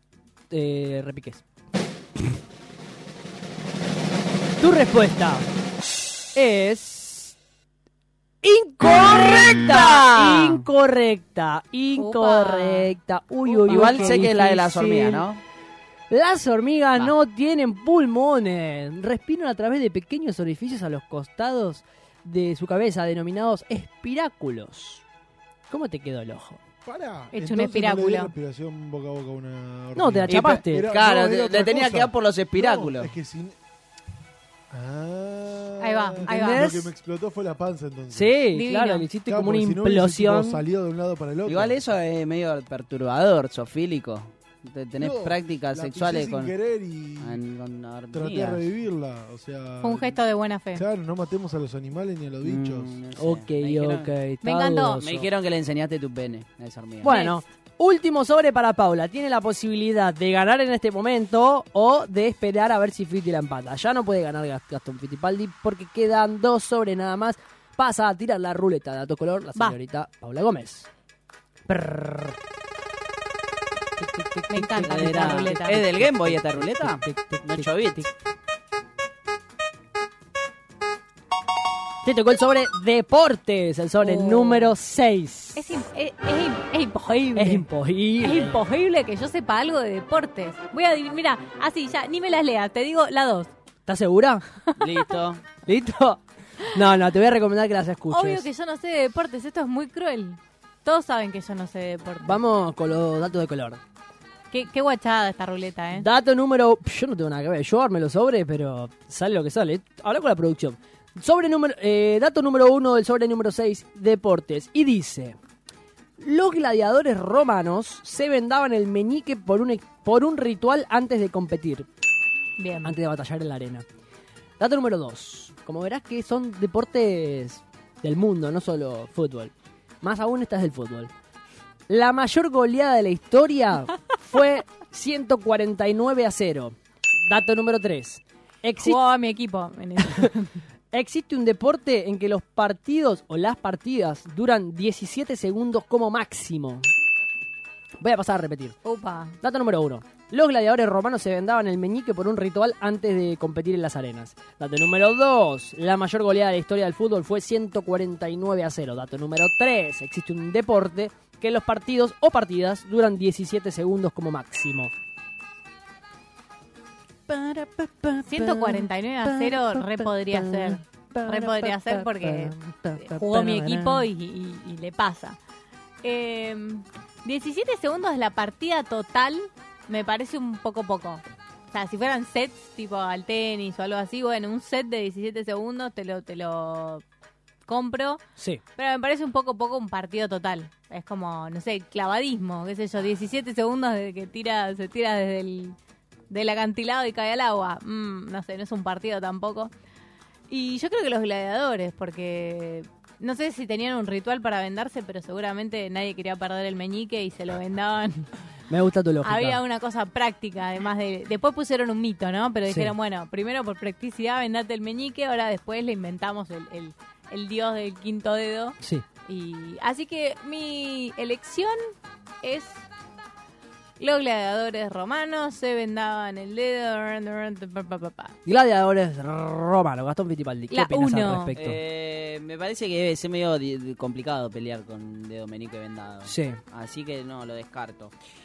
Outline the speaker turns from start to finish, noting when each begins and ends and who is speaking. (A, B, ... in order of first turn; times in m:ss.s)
0:00.5-0:01.4 A
0:04.6-0:05.5 A
0:06.4-0:07.4 A
0:08.4-0:15.2 A
0:09.5-0:10.6 B
0:12.0-0:12.9 C
0:13.4-0:14.3 C
0:13.7-0:15.4 B
0:16.1-0:25.0 A
0:25.7-0:26.6 A
0:26.8-0:33.6 D
0:27.3-0:28.3 C
0:30.0-0:30.9 A
0:30.3-0:33.1 B
0:34.7-0:38.4 D
0:35.8-0:36.6 C
0:36.2-0:36.9 A
0:38.1-0:40.6 A
0:38.5-0:39.1 C
0:39.3-0:41.8 D
0:41.5-0:46.5 B
0:45.0-0:47.4 D
0:47.2-0:48.6 B
0:48.1-0:50.2 D
0:49.8-0:50.8 C
0:50.7-0:53.0 D
0:52.4-0:54.1 B
0:53.2-0:55.3 A
0:54.4-0:55.0 C
0:55.0-0:57.1 B
0:57.0-0:57.4 C
0:57.0-1:10.9 A
1:11.7-1:12.4 A
1:14.0-1:18.1 A
1:14.5-1:15.8 C
1:14.9-1:18.1 B
1:22.0-1:25.6 A
1:24.0-1:24.8 C
1:25.6-1:27.7 C
1:27.4-1:28.6 A
1:28.2-1:33.5 C
1:33.9-1:34.4 A
1:34.8-1:35.5 B
1:35.6-1:36.2 A
1:36.7-1:38.4 A
1:38.1-1:42.4 C
1:42.2-1:43.8 A
1:44.5-1:46.1 C
1:46.0-1:55.4 A
1:56.2-2:01.9 A
2:02.6-2:02.9 C
2:02.8-2:03.8 A
2:04.6-2:11.1 A
2:11.9-2:19.0 A
2:18.8-2:20.6 C
2:20.9-2:26.9 A
2:28.0-2:28.8 A
2:28.8-2:29.4 C
2:29.4-2:44.9 A
2:47.3-2:54.1 A
2:48.3-2:55.4 C
2:56.0-3:07.0 C
3:07.7-3:08.2 C
3:08.8-3:15.8 C
3:16.3-3:19.7 C
3:20.5-3:28.3 C
3:28.7-3:29.6 A
3:29.2-3:41.8 C
3:32.7-3:32.9 A
3:42.4-3:42.8 C
3:44.0-3:48.4 C
3:48.5-3:51.8 A
3:50.7-3:51.6 C
3:51.5-3:58.1 B
3:56.2-3:56.6 A